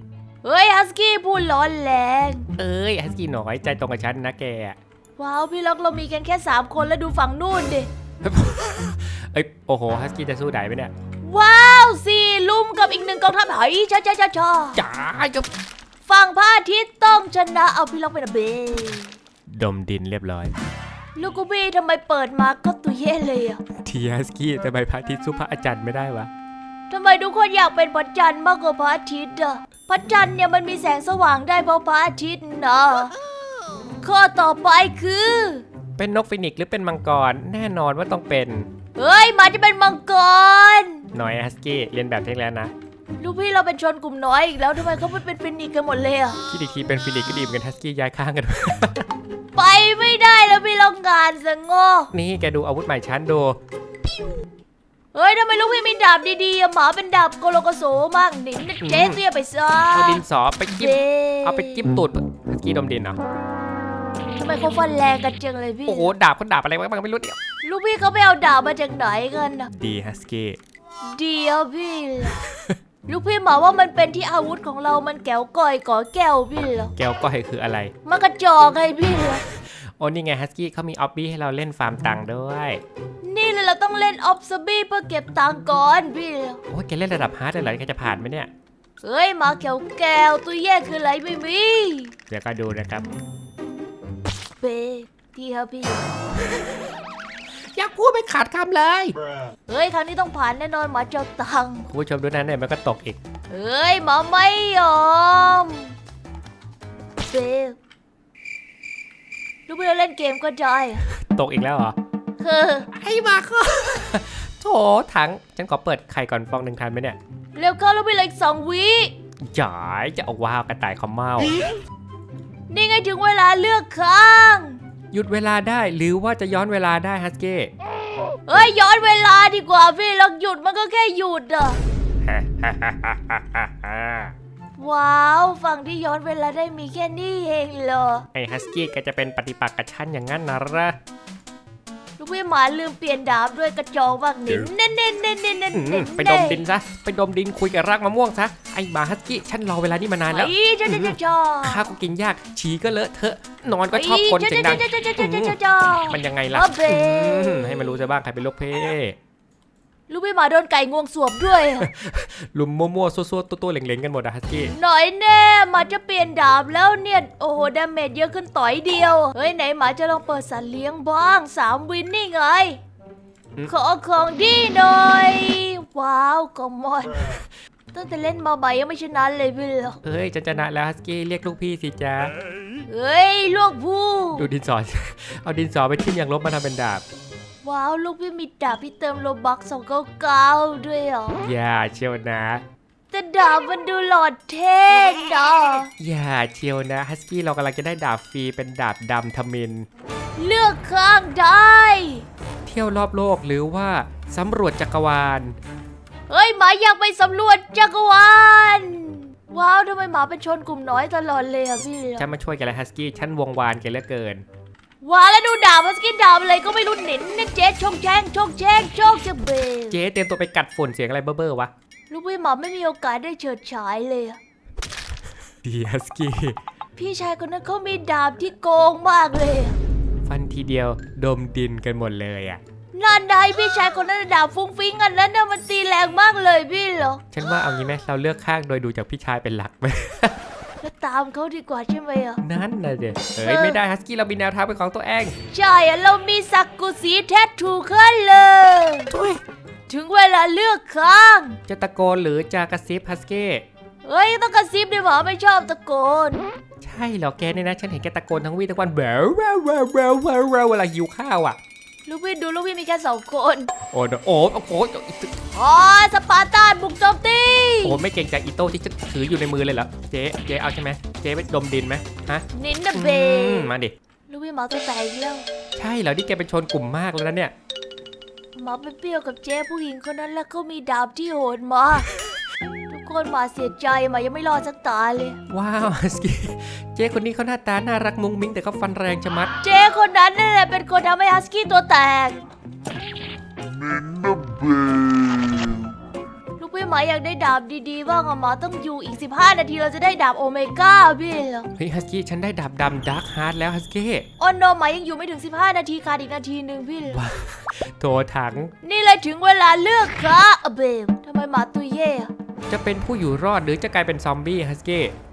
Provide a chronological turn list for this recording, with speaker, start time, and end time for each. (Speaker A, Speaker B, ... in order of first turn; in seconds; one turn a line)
Speaker A: 0.4-2.5
Speaker B: 2.6-4.8
Speaker A: 5.2-7.9
Speaker B: 8.2-10.9
Speaker A: 11.2-14.8
Speaker B: 14.8-15.5
Speaker A: 16.0-19.2
Speaker B: 19.5-20.5
Speaker A: 21.2-23.6
Speaker B: 23.8-26.3
Speaker A: 26.9-33.1
Speaker A: 34.0-35.7
Speaker B: 36.0-38.7
Speaker A: 39.0-41.1
Speaker B: 41.1-42.7
Speaker A: 43.2-46.4
Speaker B: 46.5-49.1
Speaker A: 49.5-52.1
Speaker B: 52.1-53.6
Speaker A: 55.1-60.2
Speaker B: 58.8-59.2
Speaker B: 59.9-63.2
Speaker A: 60.7-61.8
Speaker A: 64.4-66.1
Speaker B: 65.9-67.4
Speaker A: 67.6-69.7
Speaker B: 69.7-70.6
Speaker A: 71.1-72.4
Speaker A: 73.1-76.9
Speaker B: 77.0-77.9
Speaker A: 78.1-79.4
Speaker B: 79.7-82.8
Speaker A: 83.2-86.6
Speaker B: 86.7-88.5
Speaker A: 89.0-92.1
Speaker B: 92.3-93.1
Speaker A: 94.6-96.1
Speaker B: 97.7-99.2
Speaker A: 99.7-101.9
Speaker B: 101.9-103.2
Speaker A: 103.5-106.0
Speaker A: 107.2-107.8
Speaker A: 109.7-111.0
Speaker B: 111.0-112.0
Speaker A: 112.4-112.9
Speaker B: 112.9-117.2
Speaker A: 117.5-119.1
Speaker B: 119.5-121.6
Speaker A: 122.7-124.8
Speaker B: 125.1-127.7
Speaker A: 128.5-131.8
Speaker B: 132.2-134.3
Speaker A: 134.8-138.3
Speaker B: 138.3-141.0
Speaker A: 142.2-146.7
Speaker B: 145.7-159.2
Speaker A: 150.3-151.8
Speaker A: 153.9-158.0
Speaker A: 160.1-161.9
Speaker B: 161.8-164.7
Speaker A: 164.7-172.8
Speaker A: 173.7-180.0
Speaker B: 180.0-182.3
Speaker A: 182.9-184.5
Speaker B: 184.4-187.0
Speaker A: 187.6-191.4
Speaker B: 191.4-192.6
Speaker A: 193.1-195.9
Speaker B: 196.0-199.9
Speaker A: 200.4-202.3
Speaker B: 202.7-205.6
Speaker A: 206.3-212.3
Speaker B: 212.2-214.4
Speaker A: 215.0-220.0
Speaker B: 219.9-221.7
Speaker A: 222.1-224.4
Speaker B: 225.6-226.6
Speaker A: 227.0-229.8
Speaker B: 230.3-232.6
Speaker A: 232.9-237.2
Speaker B: 237.3-240.4
Speaker A: 240.8-242.4
Speaker B: 242.4-245.3
Speaker A: 243.4-243.8
Speaker A: 245.5-249.1
Speaker B: 249.1-249.4
Speaker A: 249.9-251.6
Speaker B: 251.7-253.7
Speaker A: 254.0-256.5
Speaker B: 256.8-261.6
Speaker A: 262.1-263.7
Speaker B: 263.9-265.3
Speaker A: 265.5-268.0
Speaker B: 267.8-273.9
Speaker A: 272.5-273.7
Speaker A: 274.3-275.5
Speaker B: 275.8-277.5
Speaker A: 278.6-282.1
Speaker A: 282.9-285.4
Speaker B: 285.5-289.5
Speaker A: 289.6-292.4
Speaker A: 296.6-301.7
Speaker B: 301.8-304.3
Speaker A: 304.4-307.2
Speaker B: 307.1-308.7
Speaker A: 308.8-312.3
Speaker B: 312.7-315.1